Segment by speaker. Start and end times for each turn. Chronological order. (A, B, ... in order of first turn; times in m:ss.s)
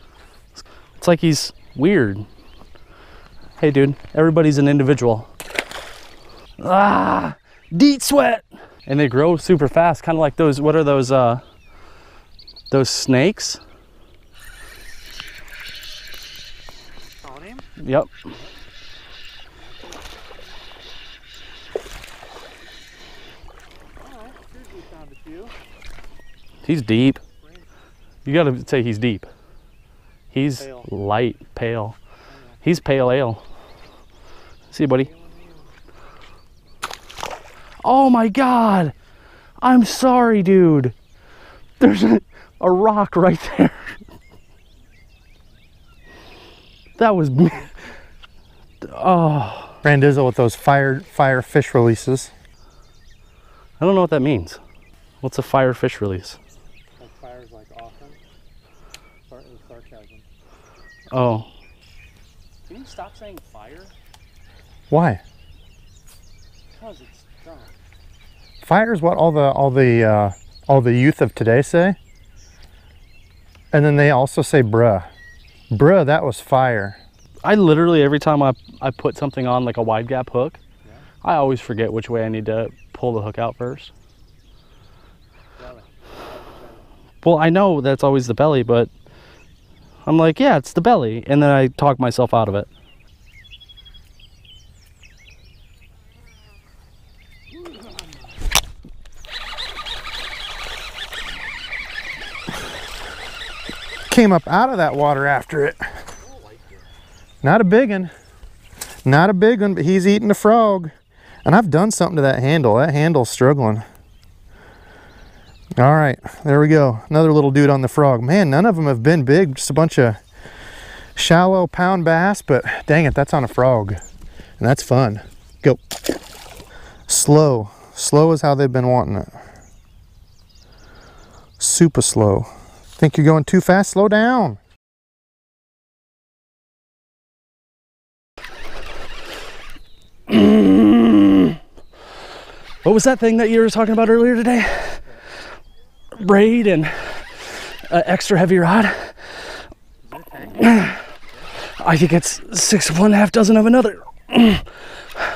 0:01.0-0:02.3 A
0:03.6-0:05.3 A
0:06.6-0:11.4 A
0:12.7-0:13.6 A
0:17.2-0:17.6 B
0:17.8-0:18.1 A
0:19.6-0:20.3 B
0:24.0-0:25.5 B
0:26.6-0:27.2 A
0:28.2-0:29.3 A
0:30.3-0:32.0 A
0:30.6-0:30.8 B
0:32.3-0:32.6 B
0:32.6-0:33.4 A
0:34.7-0:35.1 A
0:35.0-0:35.7 B
0:37.8-0:38.9 A
0:39.6-0:40.9 A
0:41.8-0:44.0 A
0:47.0-0:47.8 A
0:48.8-0:49.8 A
0:49.8-0:52.3 C
0:53.8-0:54.6 A
0:55.2-0:56.4 A
0:57.0-0:58.2 B
0:59.3-1:00.2 B
1:01.1-1:01.5 A
1:02.7-1:03.9 A
1:04.9-1:05.2 C
1:06.8-1:07.8 A
1:08.6-1:12.0 C
1:13.7-1:15.1 C
1:15.7-1:17.0 C
1:17.4-1:20.6 A
1:21.2-1:23.9 A
1:25.6-1:26.9 B
1:27.2-1:28.9 A
1:30.1-1:32.7 A
1:44.1-1:45.8 C
1:46.2-1:46.9 A
1:47.4-1:48.1 C
1:49.0-1:50.9 C
1:51.4-1:53.8 C
1:55.8-2:00.2 C
2:01.2-2:04.0 C
2:04.6-2:05.8 C
2:07.1-2:09.4 C
2:11.6-2:14.6 C
2:20.3-2:21.6 A
2:22.8-2:25.0 A
2:26.1-2:29.2 A
2:30.0-2:30.8 B
2:30.6-2:31.0 A
2:31.8-2:34.7 A